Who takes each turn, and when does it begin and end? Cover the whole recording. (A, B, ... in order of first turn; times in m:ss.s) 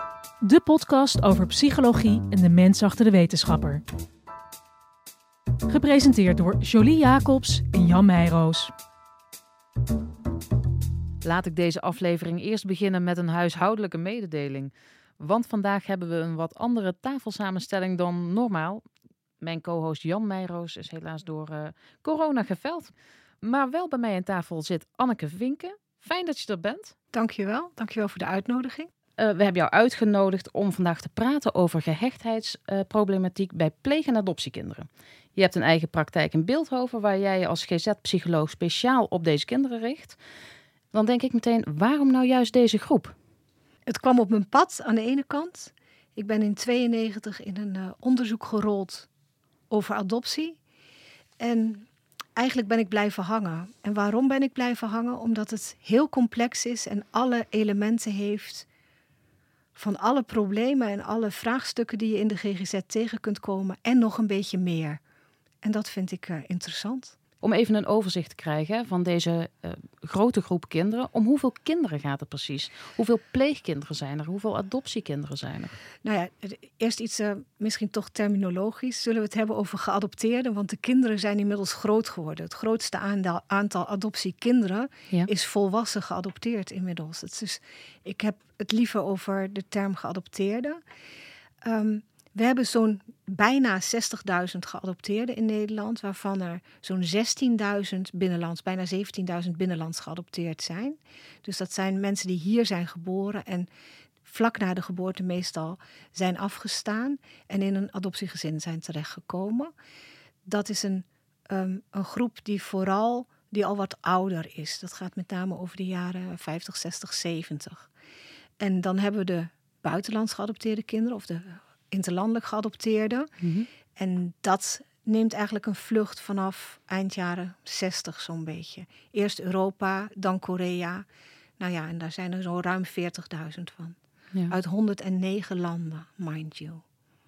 0:00.4-0:03.8 A
0:05.7-0:08.7 A
0:11.2-0:18.8 B
0:19.4-0:27.0 B
0:27.1-0:28.9 C
0:29.2-0:40.2 B
0:40.9-0:43.2 B
0:43.9-0:49.1 C
0:49.7-0:50.6 C
0:51.4-0:58.7 C
0:59.8-1:05.0 C
1:05.6-1:07.2 C
1:07.4-1:15.8 B
1:16.0-1:30.8 C
1:31.6-1:43.7 C
1:44.2-1:49.7 C
1:50.4-1:57.9 C
1:58.6-2:03.3 C
2:03.4-2:03.7 B
2:04.0-2:11.1 C
2:11.6-2:14.0 C
2:14.5-2:16.8 C